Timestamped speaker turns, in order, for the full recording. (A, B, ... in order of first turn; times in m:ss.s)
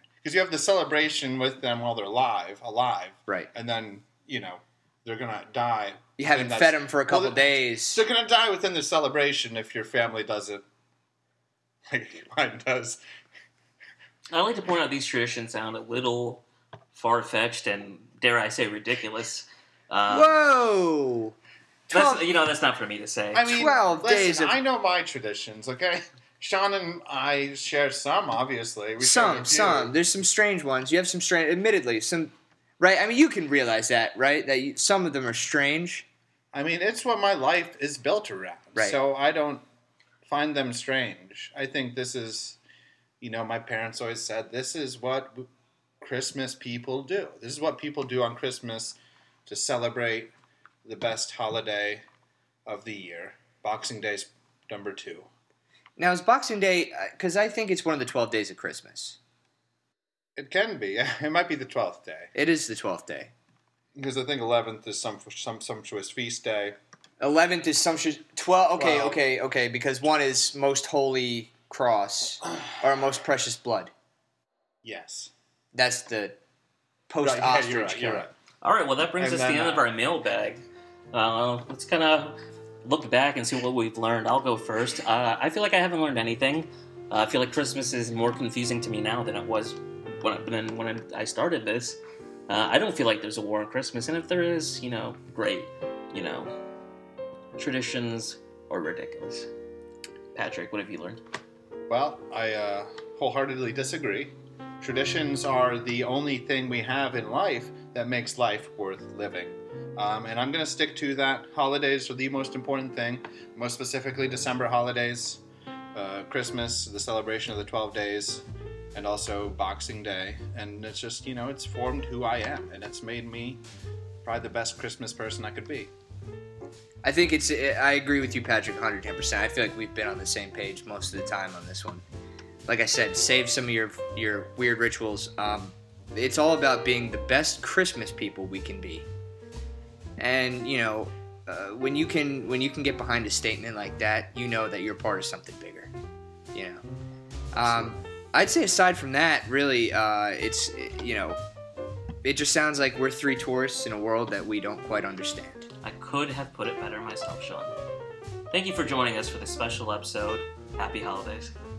0:00.1-0:10.6 A
0:06.2-0:08.0 B
0:11.9-0:13.0 A
0:14.3-0:16.4 C
0:16.9-0:20.4 C
0:20.1-0:21.3 B
0:21.9-0:23.7 C
0:21.9-0:22.2 B
0:23.3-0:29.9 A
0:23.4-0:24.6 B
0:29.0-0:36.0 B
0:36.5-0:39.6 A
0:40.2-0:42.6 A
0:43.2-0:45.5 A
0:46.0-0:50.3 A
0:50.8-0:52.0 A
0:52.7-0:55.3 A
0:56.0-0:59.2 B
1:00.4-1:02.3 A
1:02.3-1:03.3 B
1:03.9-1:06.8 A
1:07.2-1:13.9 B
1:08.8-1:09.2 A
1:14.8-1:15.3 A
1:15.7-1:16.4 B
1:17.1-1:18.3 B
1:17.2-1:18.3 A
1:18.6-1:36.5 C
1:19.2-1:19.9 A
1:37.5-1:39.5 C
1:40.3-1:41.2 C
1:41.9-1:55.4 A
1:55.9-2:03.6 A
2:04.2-2:05.9 A
2:07.0-2:12.0 B
2:12.7-2:19.1 B
2:20.2-2:25.9 B
2:26.5-2:26.8 B
2:27.5-2:31.4 B
2:32.2-2:35.7 B
2:35.8-2:37.7 C
2:38.5-2:41.5 C